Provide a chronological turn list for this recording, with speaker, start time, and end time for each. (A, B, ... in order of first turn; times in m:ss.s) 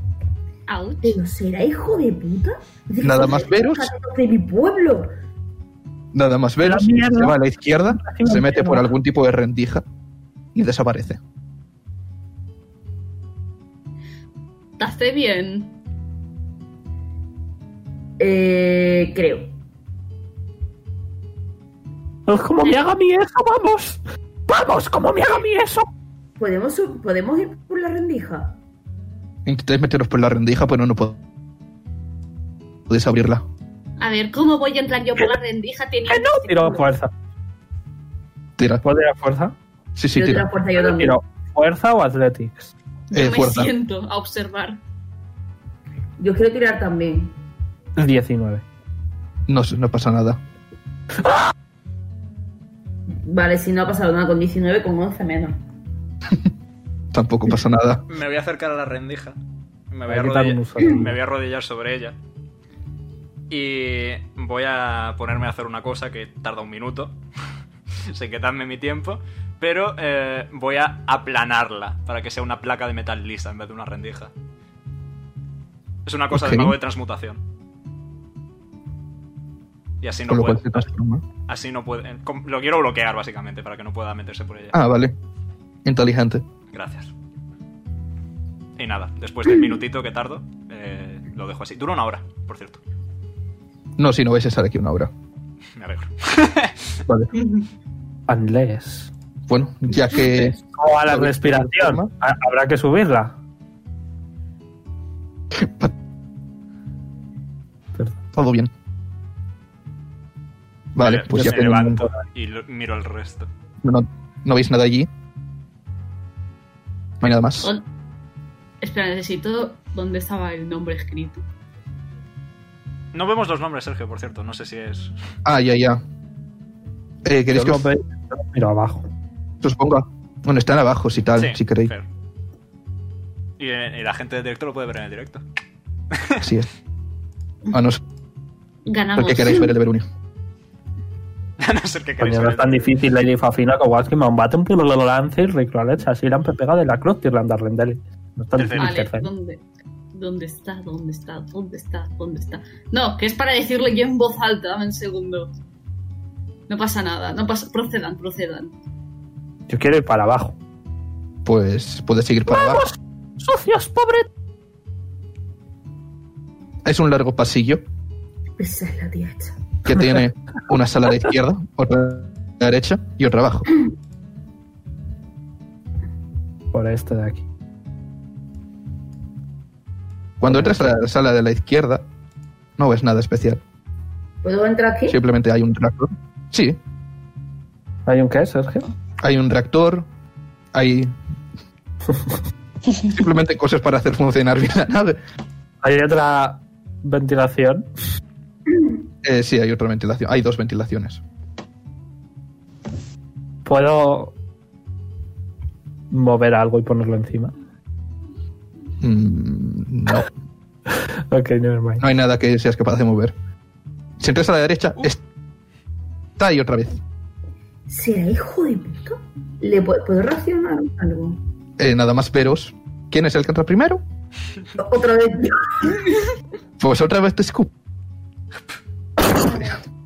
0:00.7-0:01.2 A
0:01.0-0:05.1 B
0:03.0-0:03.9 C
0:06.1-0:09.8 C
0:06.6-0:07.4 D
0:07.9-0:08.9 D
0:10.5-0:11.2 C
0:14.8-0:15.7 A
0:18.2-0:19.5 B
0:22.3-0:25.9 D
0:22.6-0:22.9 A
0:26.4-0:28.6 B
0:29.4-0:31.2 C
0:32.9-0:33.4 C
0:34.0-0:36.8 A
0:36.1-0:37.1 D
0:38.6-0:38.8 C
0:38.8-0:39.5 D
0:40.0-0:40.5 C
0:40.1-0:41.2 B
0:40.8-0:42.7 D
0:43.1-0:44.8 A
0:43.1-0:43.7 C
0:46.2-0:47.3 B
0:48.0-0:48.6 D
0:49.5-0:50.4 C
0:53.2-0:55.6 B
0:57.1-0:58.0 C
0:58.1-0:59.4 E
0:59.9-1:02.2 E
1:00.1-1:01.1 D
1:03.5-1:07.2 E
1:08.1-1:14.3 E
1:16.0-1:17.4 E
1:16.3-1:16.8 C
1:20.0-1:20.9 E
1:20.3-1:21.2 C
1:21.5-1:24.8 E
1:24.7-1:25.1 C
1:25.8-1:26.4 C
1:26.7-1:27.1 E
1:28.8-1:32.8 E
1:34.0-1:35.1 C
1:35.8-1:36.9 E
1:37.1-1:37.3 C
1:37.3-1:37.6 A
1:38.3-1:39.1 D
1:39.5-1:42.1 C
1:40.4-1:43.3 D
1:45.5-1:45.9 C
1:48.3-1:48.7 C
1:50.9-1:52.1 C
1:51.0-1:53.5 E
1:53.8-1:55.1 C
1:57.2-1:57.7 C
1:58.8-2:01.4 A
2:03.1-2:05.1 E
2:05.4-2:06.0 C
2:07.2-2:07.8 C
2:07.5-2:09.0 D
2:09.6-2:11.9 C
2:11.4-2:12.1 E
2:13.6-2:15.4 E
2:16.1-2:16.4 E
2:16.4-2:16.7 C
2:17.7-2:18.0 C
2:18.8-2:19.7 A
2:19.2-2:20.1 C
2:21.6-2:22.9 E
2:22.2-2:29.3 D
2:28.5-2:29.0 E
2:28.7-2:29.6 A
2:30.1-2:35.5 A
2:36.7-2:38.7 A
2:39.7-2:40.6 D
2:41.4-2:42.9 C
2:42.4-2:44.3 D
2:46.8-2:47.8 C
2:48.6-2:49.6 B
2:49.8-2:53.7 C
2:56.7-2:57.4 D
3:00.4-3:02.0 C
3:00.4-3:00.9 D
3:02.8-3:03.6 C
3:04.4-3:05.2 B
3:05.1-3:06.8 C
3:08.0-3:08.9 D
3:09.2-3:10.1 C
3:10.7-3:11.1 C
3:13.1-3:15.2 C
3:15.8-3:17.8 D
3:19.2-3:21.2 C
3:23.6-3:24.3 D
3:26.1-3:27.5 D
3:29.0-3:30.3 C
3:30.9-3:32.0 D
3:32.0-3:33.3 C
3:34.2-3:35.2 C
3:36.4-3:37.0 C
3:37.9-3:41.4 B
3:41.8-3:44.0 C
3:44.8-3:46.1 B
3:46.8-3:47.7 C